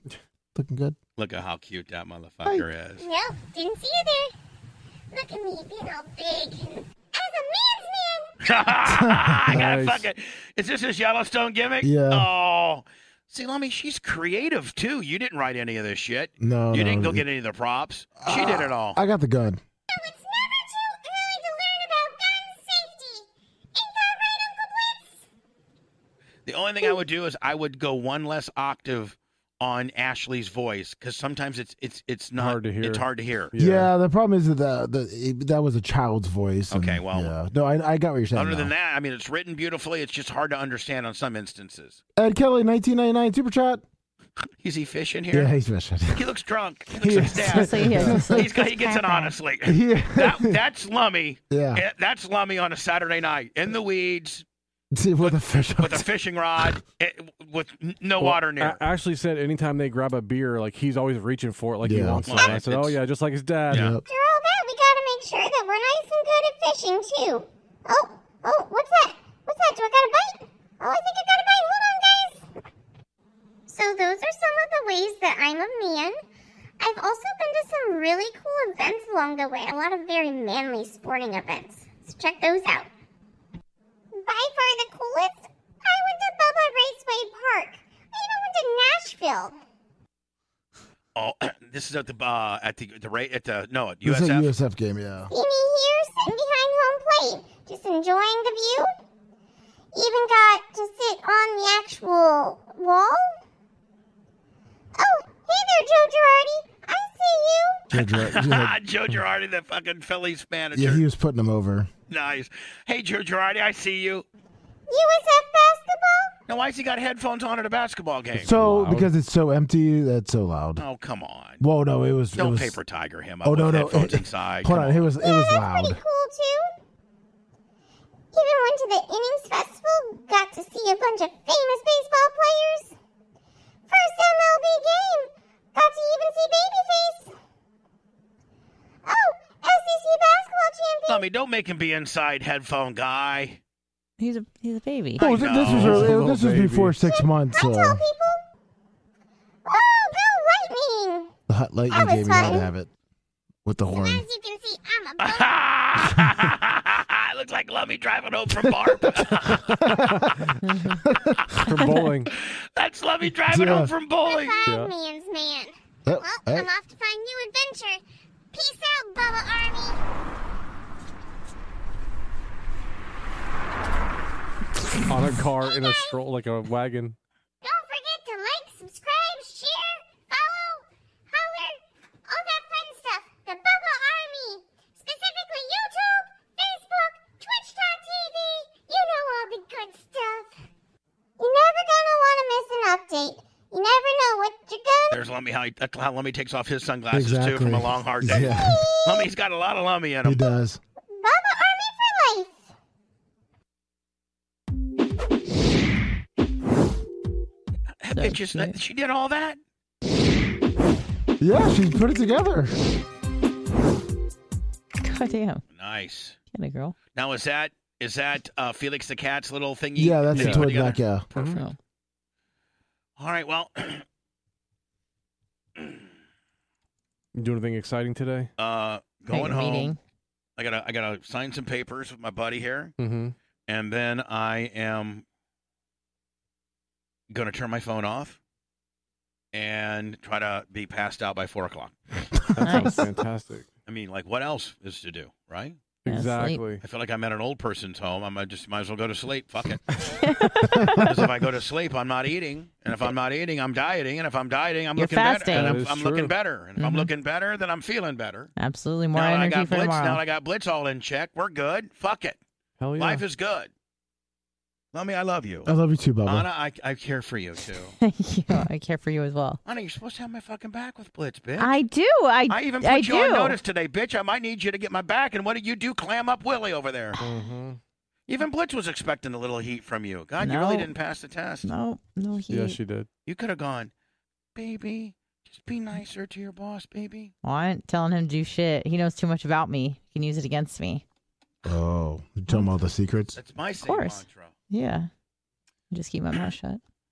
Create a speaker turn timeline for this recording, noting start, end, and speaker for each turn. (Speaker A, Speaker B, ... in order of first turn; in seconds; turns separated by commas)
Speaker A: 0.5-0.9, Speaker B: 1.1-3.0, Speaker C: 3.0-4.3, Speaker C: 5.1-8.3, Speaker B: 8.4-19.0, Speaker A: 8.8-9.4, Speaker D: 9.5-10.0, Speaker A: 11.8-12.3, Speaker A: 16.4-17.2, Speaker A: 18.2-19.6, Speaker C: 19.9-25.2, Speaker B: 26.4-33.5, Speaker D: 32.4-33.9, Speaker A: 33.6-38.7, Speaker B: 36.7-37.4, Speaker B: 38.3-42.0, Speaker A: 42.2-43.8, Speaker B: 44.6-45.5, Speaker A: 45.3-46.2, Speaker B: 46.1-54.4, Speaker A: 47.0-48.4, Speaker E: 47.4-49.3, Speaker A: 49.7-50.5, Speaker A: 51.5-51.8, Speaker A: 55.0-56.0, Speaker B: 55.2-58.8, Speaker D: 58.2-63.9, Speaker A: 61.8-62.4, Speaker B: 62.3-63.0, Speaker B: 63.7-64.0, Speaker A: 63.7-64.0, Speaker C: 64.0-72.5, Speaker C: 73.7-76.2, Speaker C: 76.8-82.9, Speaker C: 84.2-89.5, Speaker B: 91.1-94.5, Speaker A: 94.0-95.3, Speaker C: 95.3-98.9, Speaker C: 99.9-103.4, Speaker C: 105.0-107.9, Speaker A: 107.9-108.7, Speaker B: 107.9-111.0, Speaker A: 110.7-111.9, Speaker B: 112.1-114.2, Speaker C: 114.9-116.3, Speaker B: 116.5-118.6, Speaker A: 118.3-120.8, Speaker D: 118.5-119.1, Speaker B: 120.8-121.6, Speaker A: 121.6-122.8, Speaker B: 122.3-125.1, Speaker A: 123.4-126.0, Speaker C: 125.2-126.7, Speaker C: 128.3-132.9, Speaker C: 133.9-137.3, Speaker C: 139.0-141.3, Speaker B: 141.1-143.6, Speaker E: 144.2-145.2, Speaker B: 145.2-146.2, Speaker A: 145.2-148.0, Speaker D: 145.6-147.0, Speaker C: 147.0-148.4, Speaker C: 149.7-151.3, Speaker A: 151.5-152.9, Speaker C: 151.9-152.7, Speaker A: 153.6-154.2, Speaker C: 153.9-155.6, Speaker B: 155.2-160.0, Speaker A: 159.0-161.6, Speaker E: 160.6-161.0, Speaker D: 161.6-162.3, Speaker B: 162.3-164.6, Speaker A: 163.5-163.9, Speaker C: 164.2-168.0, Speaker D: 164.7-164.9, Speaker A: 166.1-166.7, Speaker C: 168.5-170.0, Speaker D: 175.1-177.2, Speaker C: 175.6-176.2, Speaker C: 177.6-190.6, Speaker C: 191.4-195.2, Speaker B: 195.1-200.4, Speaker A: 197.1-198.8, Speaker C: 198.7-199.3, Speaker A: 200.2-200.8, Speaker C: 201.2-202.6, Speaker B: 208.0-209.6, Speaker E: 208.1-208.8, Speaker A: 211.4-212.7, Speaker E: 215.0-215.6, Speaker B: 215.7-216.4, Speaker E: 216.5-216.9, Speaker B: 217.1-221.5, Speaker A: 219.9-221.3, Speaker D: 220.3-220.7, Speaker D: 221.3-221.6, Speaker E: 221.4-221.8, Speaker B: 223.2-224.0, Speaker D: 227.3-228.5, Speaker B: 228.6-229.9, Speaker E: 229.3-230.0, Speaker B: 230.6-232.9, Speaker D: 233.0-233.3, Speaker B: 233.7-235.2, Speaker B: 237.3-238.4, Speaker B: 239.5-241.9, Speaker D: 242.6-243.7, Speaker E: 242.6-243.0, Speaker A: 242.7-243.0, Speaker B: 243.8-245.8, Speaker D: 246.0-246.8, Speaker E: 246.1-246.6, Speaker B: 246.8-249.9, Speaker E: 250.2-251.0, Speaker B: 251.0-258.5, Speaker E: 255.0-255.8, Speaker D: 255.5-256.3, Speaker E: 256.8-257.1, Speaker E: 258.6-260.2, Speaker B: 259.1-262.4, Speaker D: 262.8-263.2, Speaker B: 263.0-263.7, Speaker B: 264.9-265.7, Speaker A: 265.6-266.5, Speaker B: 266.2-267.9, Speaker E: 268.0-269.6, Speaker B: 269.6-271.7, Speaker E: 271.6-273.6, Speaker B: 272.5-277.2, Speaker D: 277.2-277.8, Speaker B: 278.3-281.7, Speaker E: 280.4-280.9, Speaker E: 281.6-282.8, Speaker D: 282.5-283.1, Speaker B: 283.2-283.9, Speaker B: 284.5-287.3, Speaker E: 287.4-291.0, Speaker A: 291.6-293.4, Speaker B: 293.3-294.5, Speaker E: 293.8-295.1, Speaker E: 295.9-296.8